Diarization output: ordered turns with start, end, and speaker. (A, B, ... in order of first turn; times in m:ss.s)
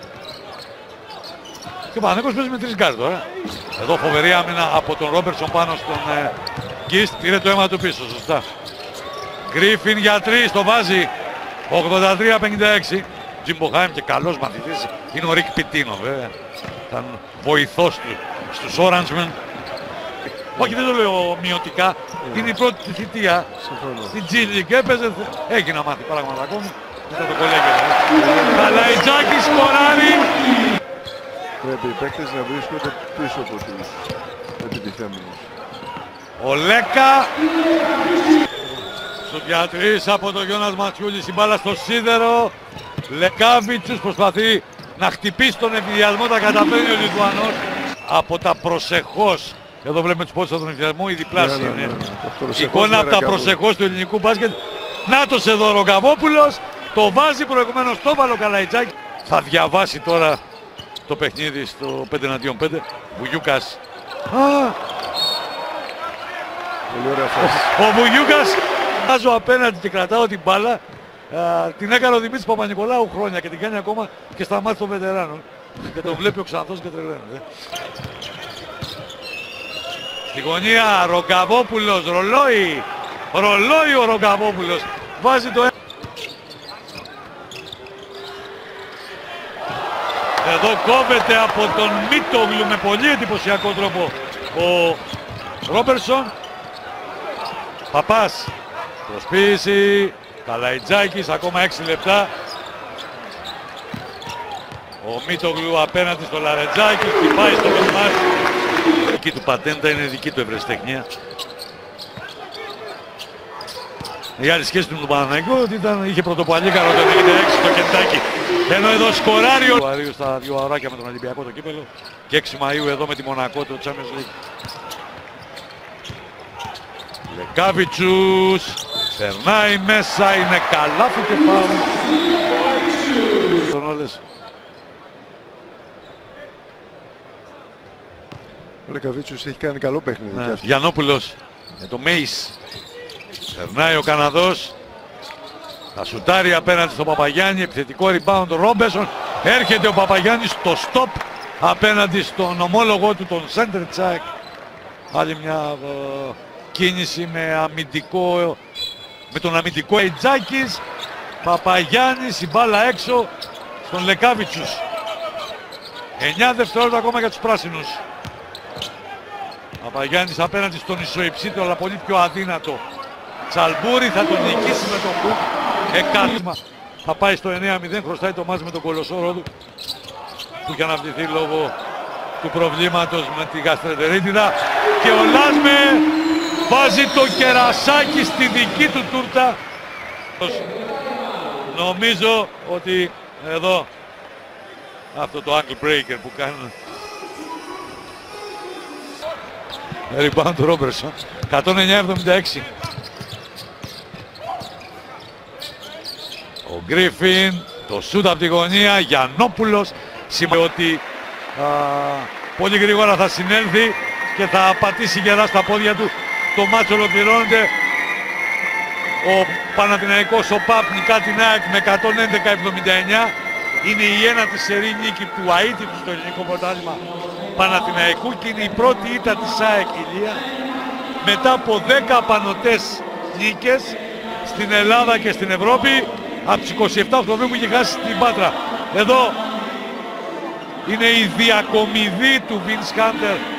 0:01.9-0:03.2 A
0:03.8-0:06.3 A
0:06.9-0:08.5 A
0:09.5-0:11.1 A
0:11.7-0:16.3 A
0:16.9-0:19.4 A
0:20.5-0:23.5 A
0:22.2-0:22.5 B
0:23.6-0:24.2 B
0:24.1-0:30.3 A
0:28.2-0:28.8 B
0:31.6-0:34.0 B
0:34.6-0:35.5 B
0:36.4-0:37.3 A
0:39.2-0:42.5 A
0:43.1-0:52.0 A
0:51.3-0:53.6 B
0:52.5-1:00.4 A
1:01.1-1:04.8 A
1:06.9-1:07.7 B
1:07.4-1:17.4 A
1:20.3-1:25.7 A
1:30.4-1:35.0 A
1:35.7-1:36.3 A
1:37.9-1:38.5 A
1:39.1-1:42.3 A
1:45.0-1:48.2 A
1:49.0-1:51.1 A
1:54.4-2:04.3 A
2:07.3-2:11.9 A
2:13.7-2:14.2 A
2:18.9-2:20.6 B
2:20.3-2:22.6 A
2:23.5-2:24.7 A
2:26.0-2:34.3 A
2:35.1-2:38.6 A
2:39.3-2:40.8 A
2:41.4-2:43.3 A
2:43.8-2:44.8 A
2:46.2-2:48.0 A
2:49.8-2:52.8 A
2:53.5-2:59.5 A
3:00.6-3:01.8 A
3:02.4-3:06.1 A
3:06.6-3:09.6 A
3:10.4-3:10.6 A
3:11.7-3:13.9 A
3:15.1-3:16.7 A
3:20.1-3:22.7 A
3:26.6-3:31.0 A
3:31.6-3:37.7 A
3:39.2-3:47.0 A
3:47.6-3:50.4 A
3:51.2-3:59.4 A
4:00.8-4:03.4 A